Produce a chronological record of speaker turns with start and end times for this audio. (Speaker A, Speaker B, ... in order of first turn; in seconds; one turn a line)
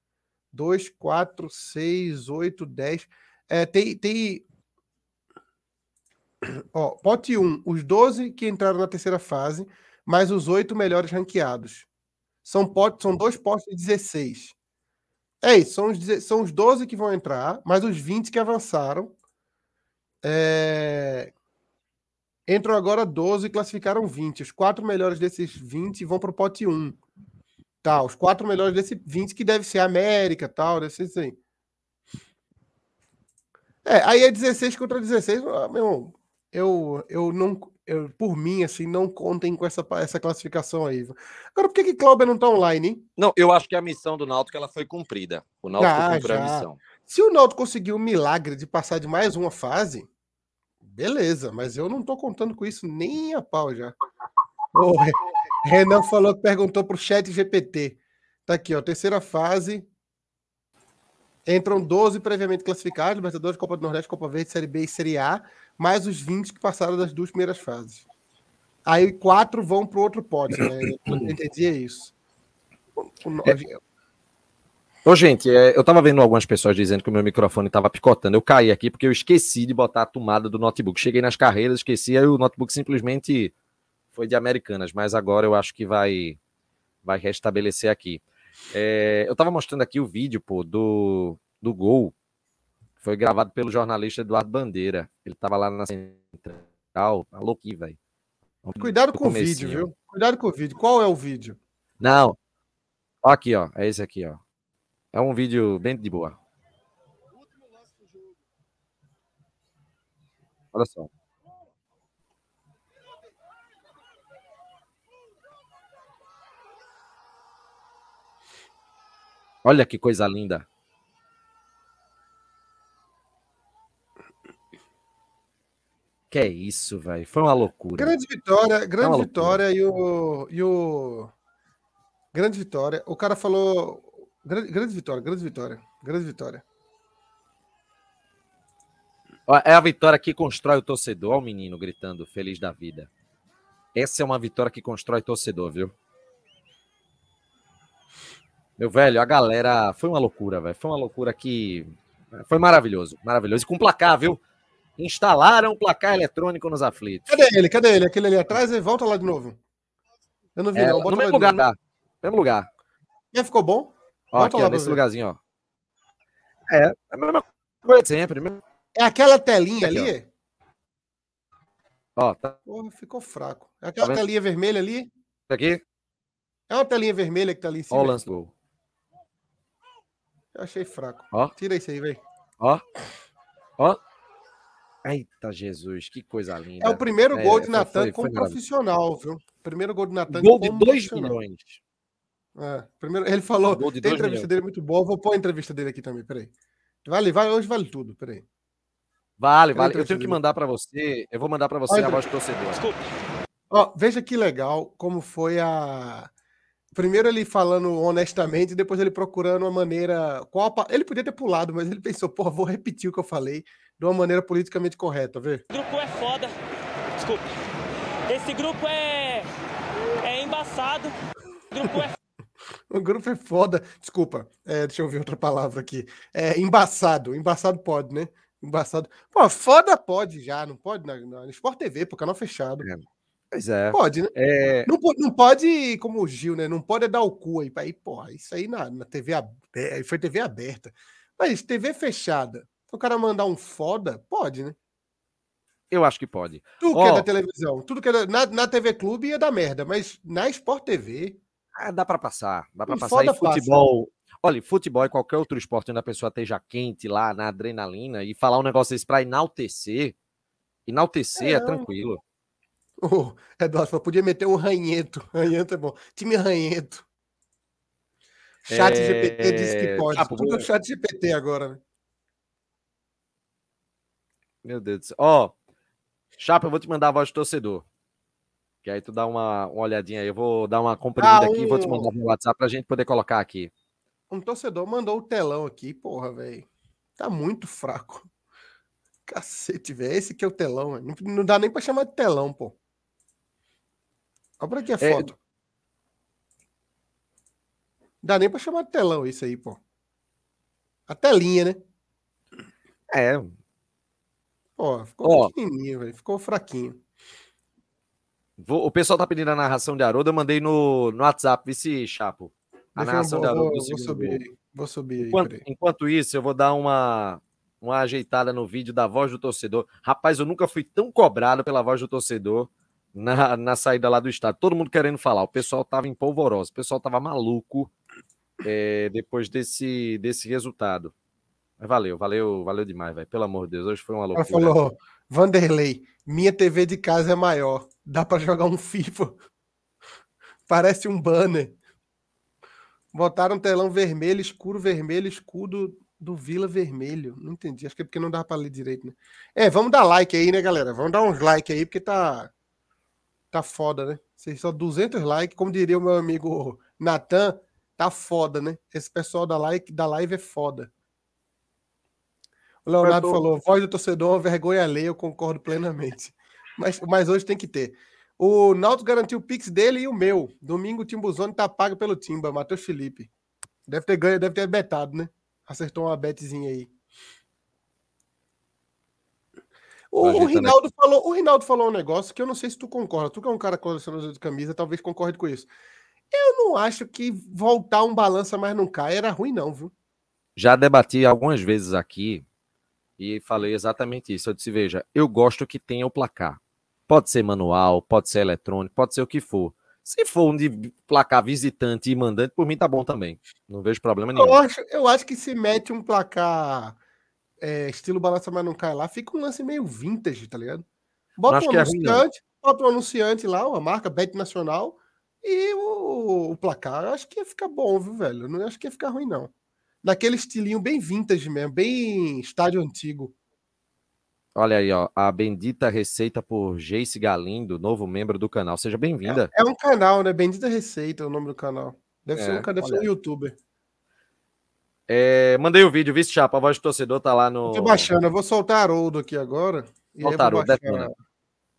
Speaker A: 0.5-4.4
Speaker A: 6.4-11.9
Speaker A: 12.4-14.5
Speaker A: 15.4-19.1
Speaker A: 20.2-21.3
Speaker A: 22.5-27.0
Speaker A: 27.8-31.4
Speaker A: 33.8-43.0
Speaker B: 43.2-46.8
Speaker A: 45.8-50.1
Speaker A: 50.8-54.0
Speaker A: 54.7-59.9
Speaker A: 61.5-68.0
Speaker A: 68.8-72.1
Speaker A: 73.2-73.8
Speaker B: 75.0-83.5
Speaker B: 84.1-86.4
Speaker B: 87.0-88.2
Speaker B: 88.7-92.1
Speaker B: 93.0-98.0
Speaker B: 98.6-99.8
Speaker A: 98.8-101.6
Speaker B: 102.0-102.4
Speaker B: 103.2-104.4
Speaker B: 105.1-106.4
Speaker B: 110.7-111.1
Speaker B: 119.6-120.6
Speaker B: 126.3-128.1
Speaker A: 128.0-131.3
Speaker B: 129.0-129.6
Speaker A: 132.3-136.6
Speaker B: 139.5-143.1
Speaker B: 143.9-145.9
Speaker B: 148.8-154.4
Speaker B: 155.0-157.4
Speaker A: 157.3-159.6
Speaker A: 160.6-161.6
Speaker B: 160.7-162.7
Speaker A: 163.3-165.0
Speaker B: 164.3-165.4
Speaker B: 166.7-168.6
Speaker A: 168.9-170.3
Speaker B: 169.8-170.1
Speaker B: 172.2-172.6
Speaker A: 172.7-175.1
Speaker B: 175.5-175.8
Speaker A: 176.7-178.2
Speaker B: 177.9-178.5
Speaker A: 180.5-182.2
Speaker B: 185.0-188.6
Speaker A: 186.8-191.3
Speaker B: 190.3-191.8
Speaker A: 192.6-196.5
Speaker B: 193.7-194.5
Speaker A: 197.0-198.4
Speaker B: 199.4-202.9
Speaker A: 199.7-200.4
Speaker A: 201.9-202.2
Speaker A: 203.7-206.3
Speaker A: 206.9-215.6
Speaker C: 215.7-216.5
Speaker C: 217.2-217.4
Speaker C: 218.3-219.5
Speaker C: 220.2-221.1
Speaker C: 221.7-222.1
Speaker A: 222.9-232.8
Speaker B: 232.8-234.9
Speaker A: 233.9-234.3
Speaker A: 234.8-244.8
Speaker B: 245.9-247.3
Speaker A: 246.8-251.4
Speaker B: 251.8-260.1
Speaker A: 252.9-253.9
Speaker B: 260.9-262.2
Speaker A: 261.4-261.8
Speaker A: 263.0-267.1
Speaker A: 268.6-271.8
Speaker B: 268.7-270.6
Speaker B: 274.6-275.5
Speaker B: 276.4-277.8
Speaker B: 278.8-283.7
Speaker A: 281.2-282.1
Speaker A: 284.3-286.7
Speaker A: 287.2-288.3
Speaker A: 289.3-292.8
Speaker A: 294.6-295.4
Speaker B: 295.0-295.3
Speaker A: 298.2-299.8
Speaker A: 301.1-301.8
Speaker B: 303.1-303.5
Speaker A: 304.8-307.0
Speaker B: 305.2-305.5
Speaker B: 308.6-314.4
Speaker A: 312.9-315.6
Speaker B: 315.2-327.9
Speaker B: 328.6-331.1
Speaker B: 331.8-334.8
Speaker A: 334.3-339.4
Speaker A: 340.7-341.8
Speaker A: 343.1-352.5
Speaker A: 353.5-360.9
Speaker A: 362.8-373.3
Speaker B: 363.0-363.3
Speaker A: 373.9-376.9
Speaker A: 380.1-385.7
Speaker B: 380.2-380.7
Speaker A: 386.3-389.9
Speaker B: 390.6-392.4
Speaker B: 393.2-404.6
Speaker A: 404.3-407.0
Speaker A: 407.6-410.8
Speaker A: 411.4-419.5
Speaker B: 411.5-412.2
Speaker A: 420.0-423.3
Speaker B: 424.6-429.5
Speaker A: 429.2-433.6
Speaker B: 432.4-433.1
Speaker B: 435.1-438.1
Speaker A: 437.7-441.1
Speaker B: 440.2-441.1